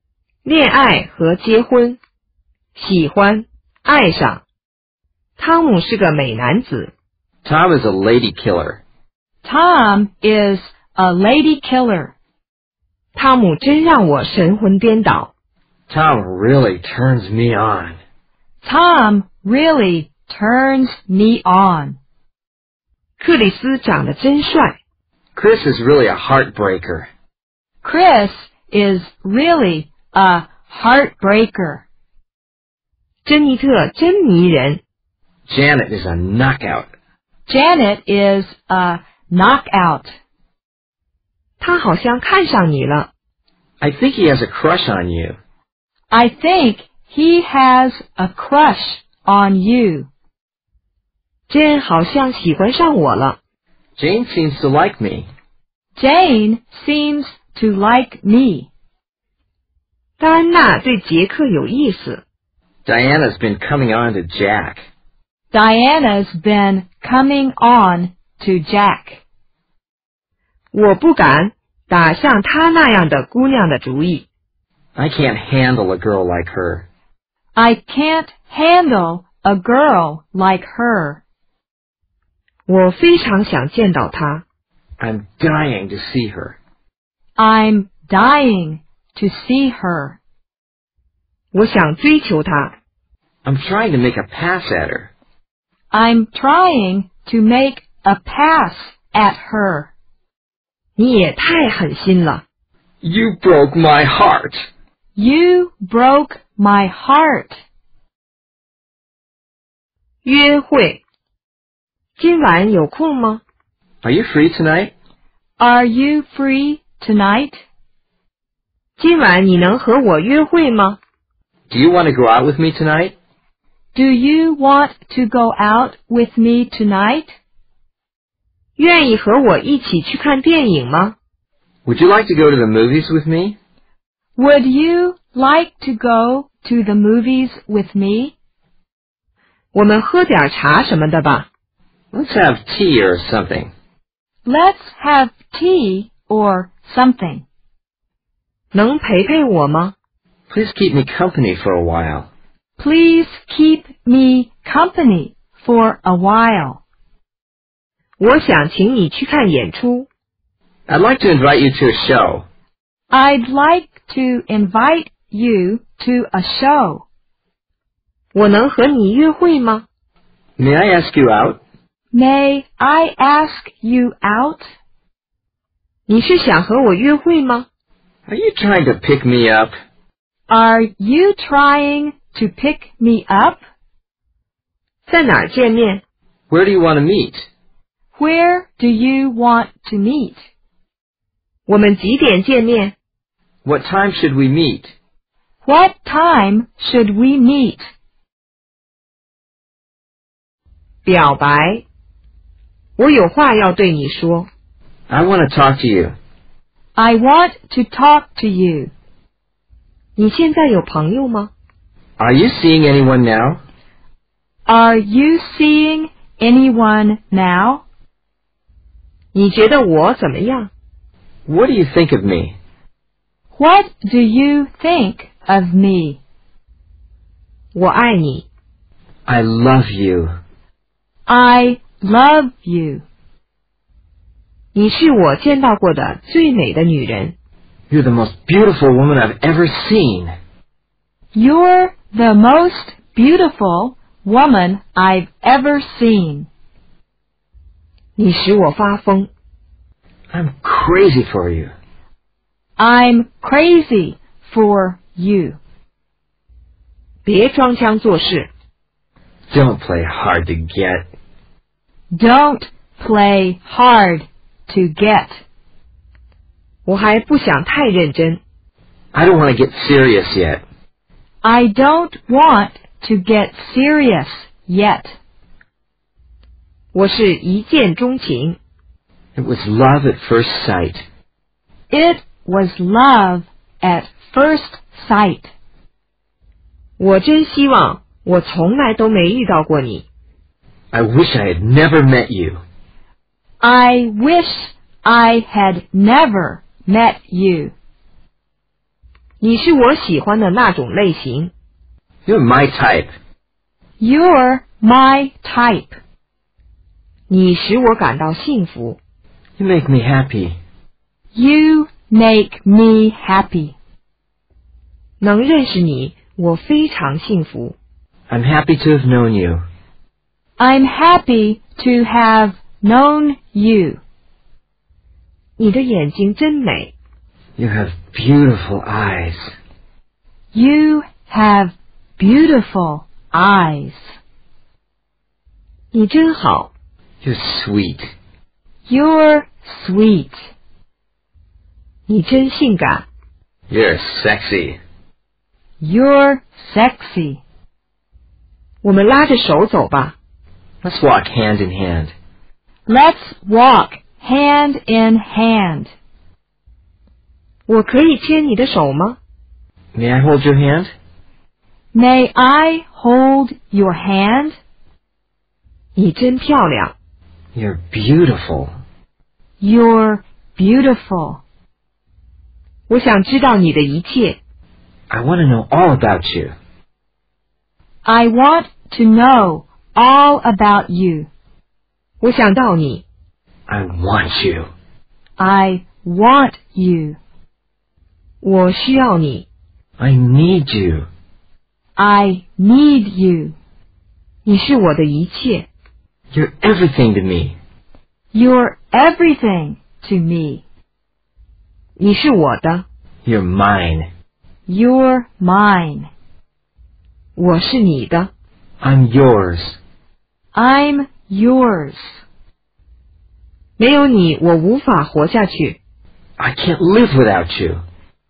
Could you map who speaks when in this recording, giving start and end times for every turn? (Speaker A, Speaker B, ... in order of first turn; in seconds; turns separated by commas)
Speaker A: 0.5-2.0, Speaker A: 2.8-4.4, Speaker A: 5.4-6.9, Speaker B: 7.4-8.8, Speaker C: 9.4-12.1, Speaker A: 13.2-15.3, Speaker B: 15.9-18.0, Speaker C: 18.6-22.0, Speaker A: 23.2-24.8, Speaker B: 25.4-27.1, Speaker C: 27.8-31.8, Speaker A: 33.2-34.8, Speaker B: 35.5-36.9, Speaker C: 37.5-40.1, Speaker A: 41.6-43.1, Speaker B: 43.8-45.4, Speaker C: 46.1-50.1, Speaker A: 51.5-53.4, Speaker B: 54.0-55.3, Speaker C: 56.0-58.7, Speaker A: 60.2-62.2, Speaker B: 62.9-64.8, Speaker C: 65.5-69.2, Speaker A: 70.7-74.3, Speaker B: 75.0-76.8, Speaker C: 77.6-81.2, Speaker A: 82.7-84.4, Speaker B: 85.0-86.6, Speaker C: 87.4-90.2, Speaker A: 91.5-92.8, Speaker B: 93.5-95.1, Speaker C: 95.9-99.9, Speaker A: 101.0-102.4, Speaker B: 103.0-104.7, Speaker C: 105.2-107.6, Speaker A: 110.2-111.0, Speaker A: 112.2-113.4, Speaker B: 114.0-114.9, Speaker C: 115.6-117.6, Speaker A: 119.0-121.0, Speaker B: 121.7-123.2, Speaker C: 124.0-127.3, Speaker A: 128.8-131.2, Speaker B: 131.9-133.6, Speaker C: 134.4-138.3, Speaker A: 139.7-141.5, Speaker B: 142.1-143.7, Speaker C: 144.5-147.4, Speaker A: 148.7-149.9, Speaker B: 150.5-152.3, Speaker C: 152.8-156.8, Speaker A: 158.2-160.1, Speaker B: 160.9-162.4, Speaker C: 163.1-167.1, Speaker A: 168.3-169.9, Speaker B: 170.6-171.6, Speaker C: 172.1-174.7, Speaker A: 176.1-177.7, Speaker B: 178.3-179.7, Speaker C: 180.5-183.6, Speaker A: 185.1-186.0, Speaker B: 186.5-187.5, Speaker C: 188.2-190.4, Speaker A: 191.7-192.9, Speaker B: 193.6-194.9, Speaker C: 195.7-197.9, Speaker A: 201.1-201.8, Speaker A: 203.0-204.5, Speaker B: 205.1-206.1, Speaker C: 207.0-208.9, Speaker A: 210.2-211.5, Speaker B: 212.2-213.6, Speaker C: 214.7-217.8, Speaker A: 219.3-220.7, Speaker B: 221.5-222.6, Speaker C: 223.6-226.2, Speaker A: 227.7-228.5, Speaker B: 229.3-230.3, Speaker C: 231.3-233.0, Speaker A: 234.8-237.3, Speaker B: 237.9-240.3, Speaker C: 241.3-246.5, Speaker A: 248.2-249.3, Speaker B: 250.3-251.7, Speaker C: 252.8-255.6, Speaker A: 257.2-258.5, Speaker B: 259.5-261.1, Speaker C: 262.1-265.4, Speaker A: 266.9-268.4, Speaker B: 269.1-270.6, Speaker C: 271.4-275.2, Speaker A: 276.9-278.6, Speaker B: 279.4-281.1, Speaker C: 281.9-285.5, Speaker A: 287.0-290.1, Speaker B: 290.9-292.6, Speaker C: 293.6-297.7, Speaker A: 299.4-301.5, Speaker B: 302.3-303.1, Speaker C: 304.0-306.0, Speaker A: 307.3-309.0, Speaker B: 309.6-310.6, Speaker C: 311.3-313.7, Speaker A: 315.2-317.8, Speaker B: 318.3-319.6, Speaker C: 320.6-324.0, Speaker A: 325.6-326.9, Speaker B: 327.6-329.5, Speaker C: 330.5-334.1, Speaker A: 335.9-336.7, Speaker B: 337.2-338.1, Speaker C: 338.9-340.5, Speaker A: 342.1-343.1, Speaker B: 343.7-344.8, Speaker C: 345.8-347.4, Speaker A: 348.8-350.2, Speaker B: 350.8-352.1, Speaker C: 352.9-355.9, Speaker A: 357.7-359.2, Speaker B: 359.9-360.9, Speaker C: 361.9-364.6, Speaker A: 366.0-366.9, Speaker B: 367.6-368.7, Speaker C: 369.6-371.4, Speaker A: 372.9-374.4, Speaker B: 375.1-376.5, Speaker C: 378.1-381.3, Speaker A: 382.2-383.1, Speaker B: 383.7-384.7, Speaker C: 385.4-387.2, Speaker A: 388.4-389.5, Speaker B: 390.0-391.1, Speaker C: 392.0-393.6, Speaker A: 394.4-395.7, Speaker B: 396.3-397.6, Speaker C: 398.3-400.6, Speaker A: 402.0-402.8, Speaker B: 403.2-404.1, Speaker C: 404.7-406.1, Speaker A: 407.4-408.3, Speaker B: 408.8-409.8, Speaker C: 410.5-412.2, Speaker A: 413.8-415.8, Speaker B: 416.4-417.8